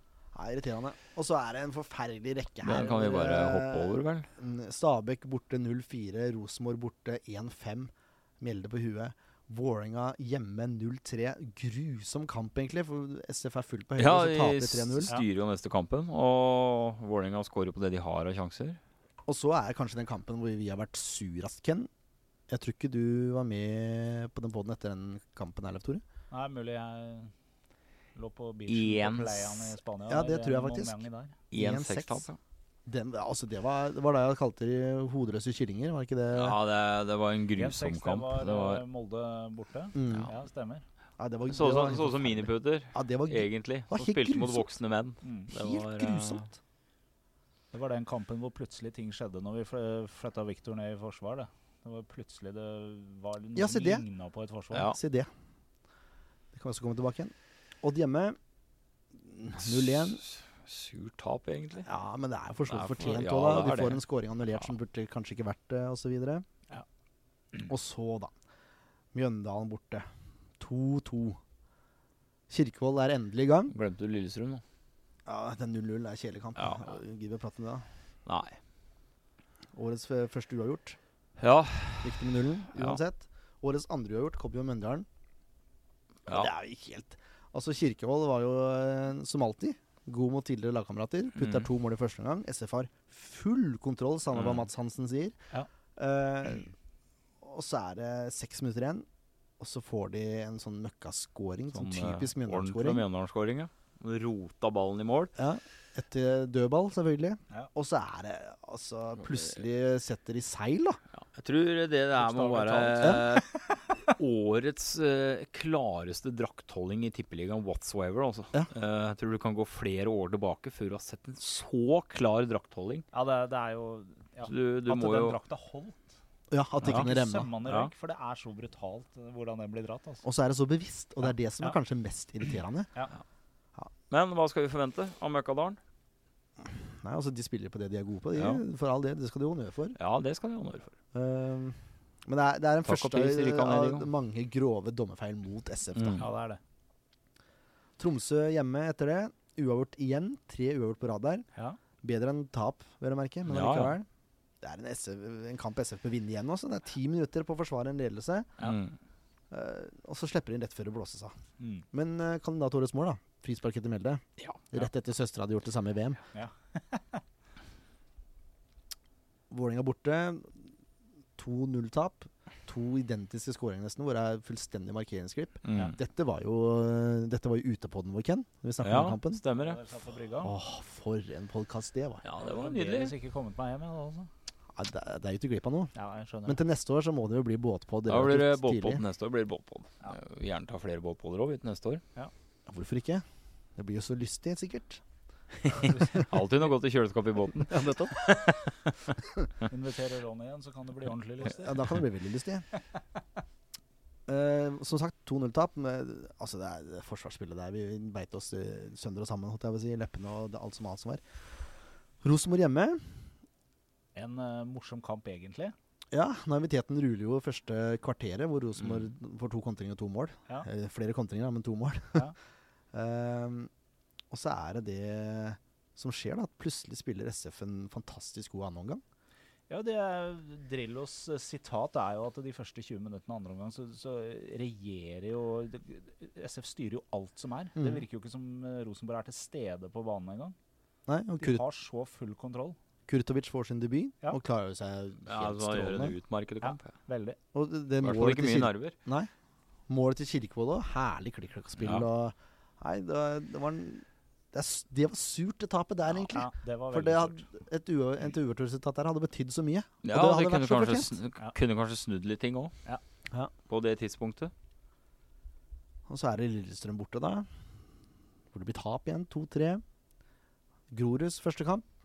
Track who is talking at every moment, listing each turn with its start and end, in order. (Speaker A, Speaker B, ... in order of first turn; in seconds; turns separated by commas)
Speaker A: 0.3-15.1, Speaker B: 2.6-4.3, Speaker B: 13.9-18.8, Speaker A: 19.2-21.9, Speaker A: 22.5-26.0, Speaker C: 26.3-27.3, Speaker C: 28.1-31.4, Speaker B: 28.7-29.8, Speaker A: 30.1-31.0, Speaker B: 31.5-32.4, Speaker A: 31.5-32.3, Speaker A: 32.9-36.6, Speaker B: 36.3-38.8, Speaker C: 37.5-40.8, Speaker A: 39.9-40.3, Speaker A: 41.2-44.7, Speaker B: 41.5-46.5, Speaker C: 45.2-45.5, Speaker A: 45.5-46.5, Speaker C: 47.7-54.9, Speaker A: 53.5-54.0, Speaker A: 54.9-55.3, Speaker A: 56.5-58.4, Speaker A: 59.1-60.2, Speaker B: 59.6-61.9, Speaker A: 61.8-66.5, Speaker B: 62.7-64.0, Speaker A: 67.7-68.3, Speaker A: 69.1-70.1, Speaker A: 70.6-71.4, Speaker A: 72.5-73.7, Speaker B: 73.7-74.6, Speaker A: 75.2-77.9, Speaker B: 76.6-76.8, Speaker B: 78.2-78.6, Speaker A: 79.7-81.0, Speaker B: 81.4-83.0, Speaker A: 82.0-85.0, Speaker A: 86.3-95.3, Speaker B: 91.3-91.7, Speaker B: 94.3-94.7, Speaker A: 96.0-96.7, Speaker A: 97.4-99.1, Speaker A: 99.6-103.0, Speaker B: 101.7-105.3, Speaker A: 105.3-111.0, Speaker B: 111.2-123.0, Speaker A: 112.2-113.4, Speaker C: 112.7-113.0, Speaker C: 123.1-126.0, Speaker B: 124.5-125.4, Speaker A: 126.5-127.5, Speaker C: 126.8-130.2, Speaker B: 127.6-127.9, Speaker A: 130.2-132.9, Speaker B: 134.1-135.8, Speaker A: 136.6-140.0, Speaker B: 138.3-138.6, Speaker B: 139.9-140.9, Speaker A: 141.1-146.2, Speaker B: 142.8-144.1, Speaker B: 145.9-146.2, Speaker C: 146.2-146.6, Speaker A: 148.0-151.4, Speaker A: 152.0-154.1, Speaker B: 153.4-153.9, Speaker A: 154.6-158.5, Speaker B: 158.6-158.9, Speaker A: 159.5-161.4, Speaker C: 161.6-161.8, Speaker A: 161.9-166.2, Speaker C: 166.3-167.2, Speaker A: 169.5-170.7, Speaker A: 171.4-179.4, Speaker B: 175.6-175.9, Speaker B: 178.8-179.8, Speaker C: 179.5-180.5, Speaker A: 180.4-182.2, Speaker B: 182.2-183.1, Speaker C: 182.4-184.3, Speaker A: 184.8-185.9, Speaker C: 185.9-186.6, Speaker A: 186.4-189.0, Speaker B: 188.1-192.0, Speaker A: 192.7-193.2, Speaker A: 193.8-195.0, Speaker B: 195.6-198.7, Speaker C: 195.8-196.3, Speaker A: 197.7-198.5, Speaker C: 199.6-201.9, Speaker A: 201.6-202.7, Speaker A: 204.3-211.2, Speaker A: 212.2-213.2, Speaker C: 214.1-215.7, Speaker A: 216.1-222.3, Speaker B: 218.8-219.1, Speaker A: 222.9-223.7, Speaker A: 224.3-229.0, Speaker C: 229.7-240.5, Speaker A: 237.8-238.0, Speaker A: 241.1-241.6, Speaker C: 241.4-242.8, Speaker A: 243.1-246.2, Speaker B: 245.2-246.9, Speaker C: 246.6-247.4, Speaker A: 247.5-249.3, Speaker B: 248.0-248.9, Speaker A: 249.9-261.1, Speaker B: 251.8-252.1, Speaker C: 256.3-257.4, Speaker B: 260.0-262.7, Speaker B: 263.6-264.5, Speaker A: 266.1-267.5, Speaker A: 268.5-269.8, Speaker A: 270.9-271.8